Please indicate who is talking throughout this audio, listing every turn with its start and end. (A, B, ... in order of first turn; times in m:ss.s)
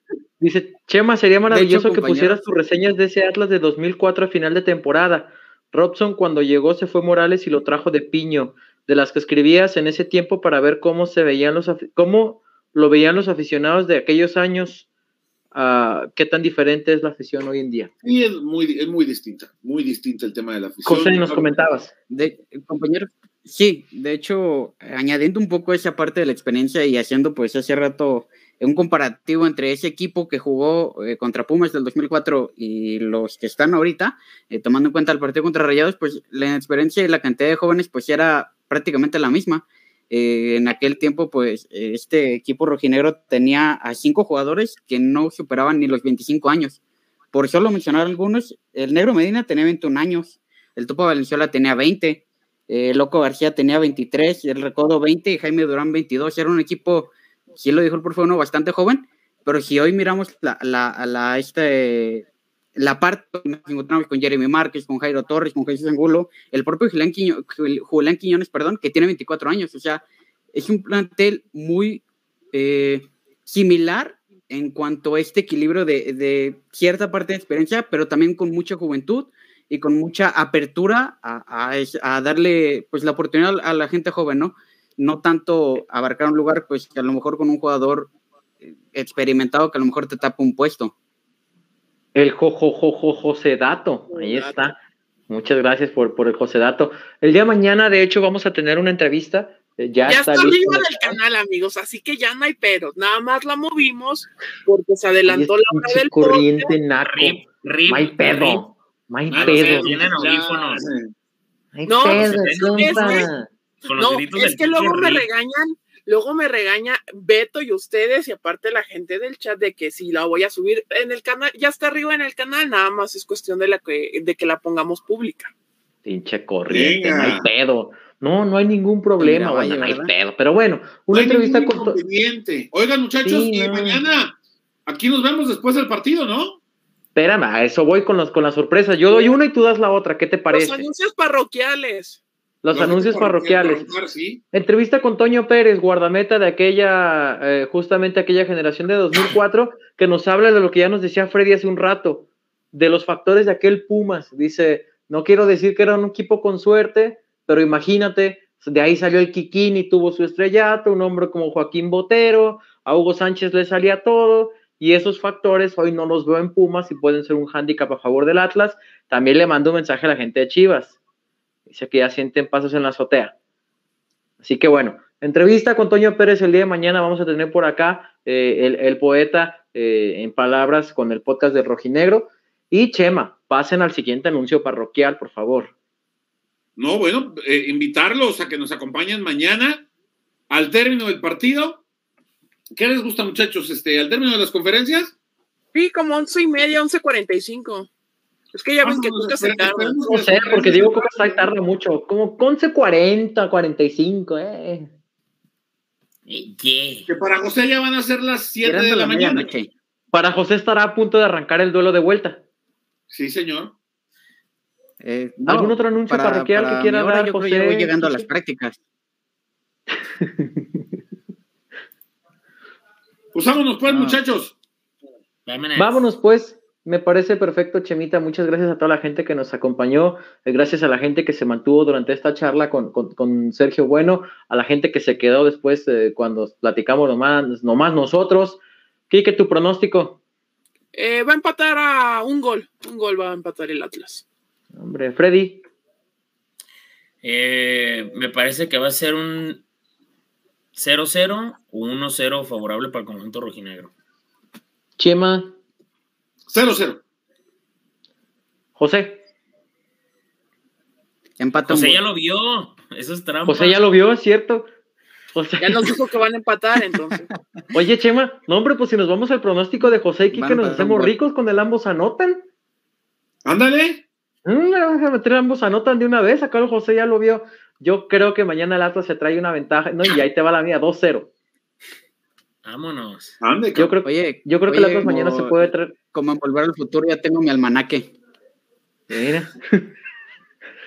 0:00.4-0:14.8 A
0:01.5-0:02.4 B
0:15.5-0:17.9 A
0:18.0-0:21.5 C
0:20.8-0:21.9 A
0:22.1-0:46.8 B
0:47.3-1:10.0 B
1:10.5-1:28.1 B
1:28.6-1:30.9 B
1:32.1-1:34.8 A
1:35.3-1:41.2 A
1:40.1-1:46.7 D
1:45.3-1:50.0 A
1:47.0-1:48.7 E
1:49.3-1:50.8 E
1:49.3-1:51.1 C
1:51.7-1:53.5 A
1:51.9-1:53.3 D
1:52.0-1:53.3 E
1:53.8-1:55.2 E
1:54.0-2:05.5 D
2:06.0-2:12.0 A
2:06.7-2:07.5 C
2:09.2-2:10.1 B
2:11.1-2:14.3 C
2:13.2-2:14.0 A
2:14.8-2:16.6 C
2:17.1-2:20.8 A
2:20.5-2:22.2 D
2:22.6-2:23.9 A
2:22.7-2:24.4 C
2:24.5-2:51.0 A
2:51.7-2:53.3 A
2:54.4-3:05.7 A
3:06.8-3:09.9 C
3:10.5-3:11.8 C
3:12.7-3:15.1 C
3:15.7-3:17.9 D
3:18.5-3:20.1 D
3:18.8-3:21.5 C
3:20.1-3:24.9 A
3:26.3-3:27.1 E
3:27.1-3:29.5 C
3:28.6-3:29.7 B
3:30.1-3:32.4 A
3:33.1-3:33.7 C
3:35.0-3:38.8 B
3:35.4-3:38.2 A
3:40.2-3:40.7 A
3:43.3-3:44.5 C
3:43.9-3:44.2 B
3:45.4-3:46.0 E
3:45.8-4:00.2 A
4:00.9-4:04.2 D
4:04.7-4:05.6 A
4:07.2-4:09.6 E
4:10.7-4:13.9 E
4:15.0-4:15.5 A
4:16.5-4:17.0 C
4:18.8-4:19.2 A
4:21.4-4:22.0 B
4:21.7-4:23.8 E
4:23.4-4:24.7 A
4:25.3-4:25.8 A
4:25.6-4:27.3 D
4:27.7-4:32.4 A
4:30.3-4:31.1 B
4:33.4-4:34.0 C
4:34.4-4:41.3 A
4:42.6-4:43.3 E
4:43.4-4:43.9 C
4:43.8-4:45.9 A
4:44.0-4:48.1 B
4:49.1-4:49.9 A